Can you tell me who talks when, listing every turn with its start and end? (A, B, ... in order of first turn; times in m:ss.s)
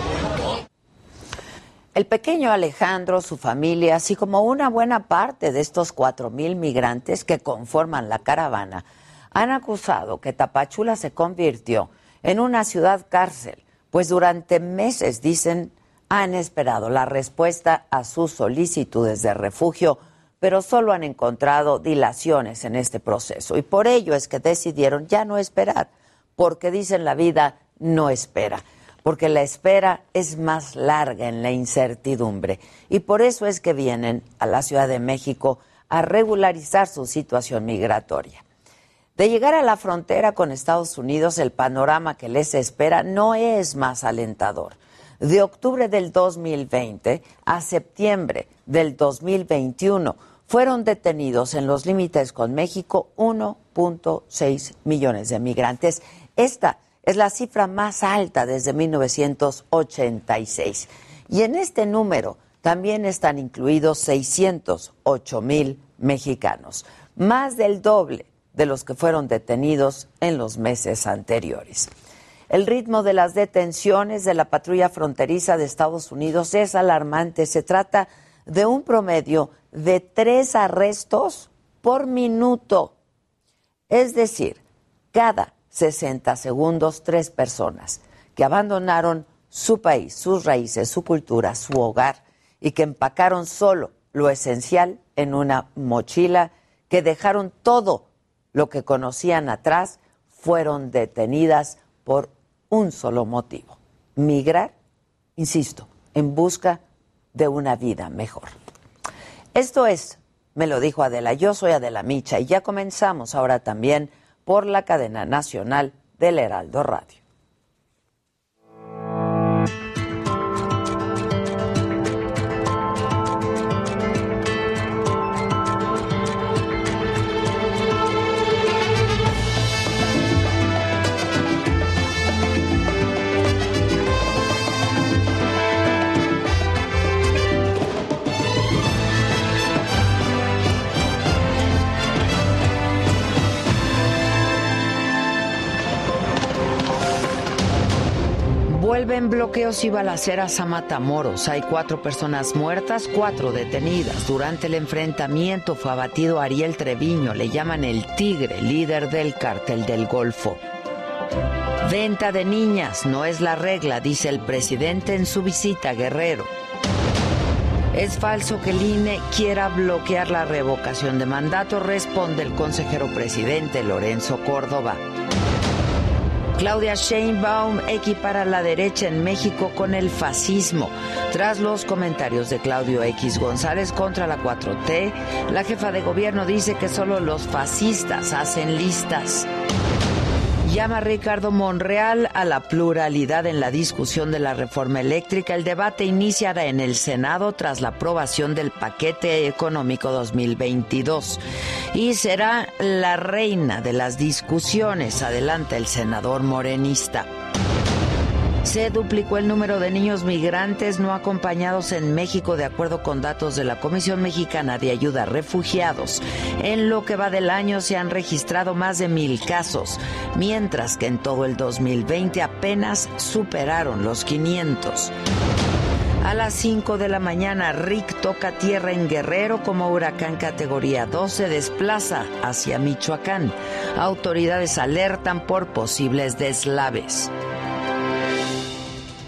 0:01.9-0:38.4 A
0:39.2-1:11.9 A
1:12.5-1:23.0 A
1:23.9-1:24.6 A
1:25.1-1:44.7 A
1:45.4-1:46.8 A
1:47.3-1:48.5 A
1:49.5-1:57.2 A
2:28.7-2:40.6 A
2:41.8-2:46.5 A
2:47.9-2:55.0 A
2:56.6-3:09.5 A
3:10.6-3:21.4 A
3:21.9-3:27.3 A
3:28.6-3:45.1 A
3:46.2-3:57.3 A